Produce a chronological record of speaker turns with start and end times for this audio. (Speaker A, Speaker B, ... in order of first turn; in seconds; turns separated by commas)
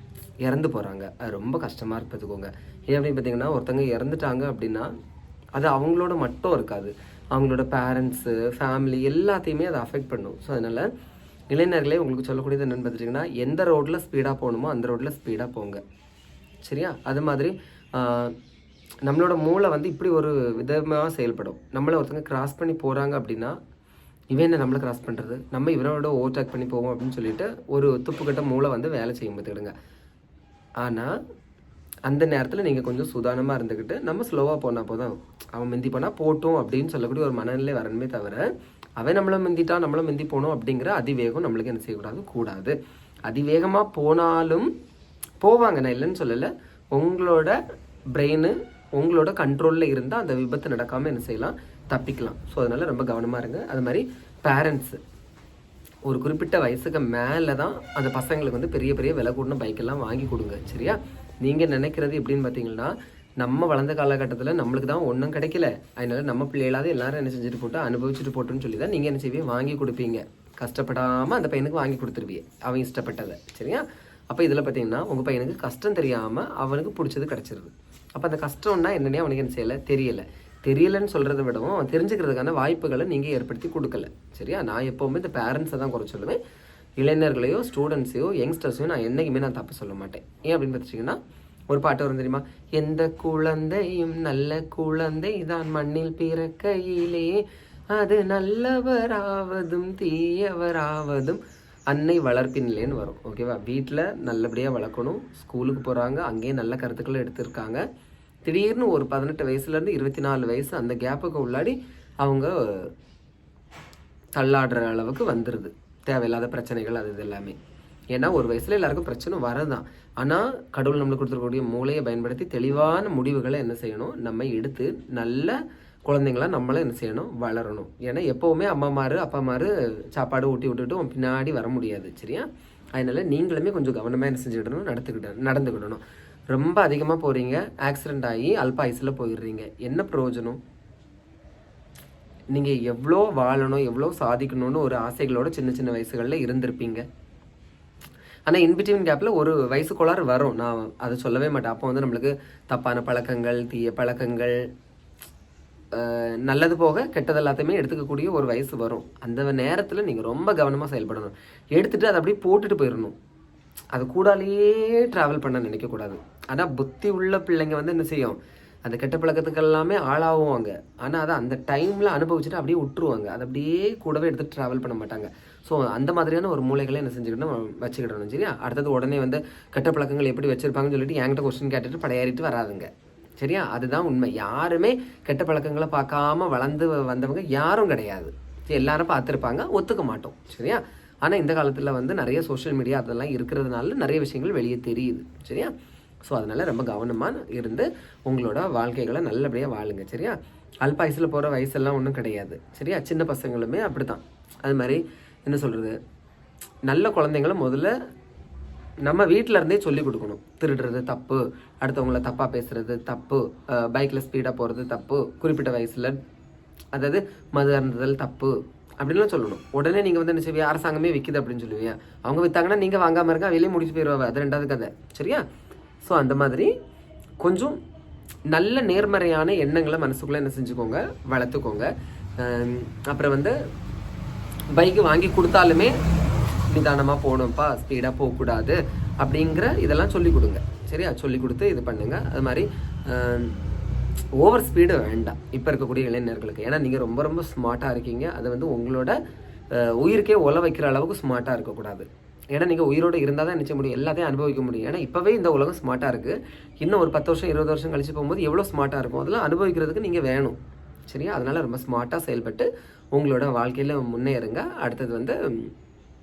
Speaker A: 0.4-4.9, Speaker A: 5.6-10.9, Speaker A: 11.5-15.8, Speaker A: 16.6-18.3, Speaker A: 19.0-23.6, Speaker A: 24.3-29.7, Speaker A: 30.8-31.1, Speaker A: 32.1-42.8, Speaker A: 43.3-44.7, Speaker A: 45.4-47.6, Speaker A: 48.1-55.0, Speaker A: 56.1-86.4, Speaker A: 87.0-107.8, Speaker A: 108.4-112.9, Speaker A: 114.4-117.6, Speaker A: 118.1-140.6, Speaker A: 142.5-147.0, Speaker A: 148.5-154.6, Speaker A: 155.9-163.1, Speaker A: 163.9-195.7, Speaker A: 196.3-205.9, Speaker A: 206.9-207.9, Speaker A: 209.0-216.2, Speaker A: 216.9-225.4, Speaker A: 226.0-226.7, Speaker A: 227.4-227.8, Speaker A: 228.5-233.5, Speaker A: 234.7-235.9, Speaker A: 236.7-243.5, Speaker A: 244.3-249.2, Speaker A: 249.7-265.7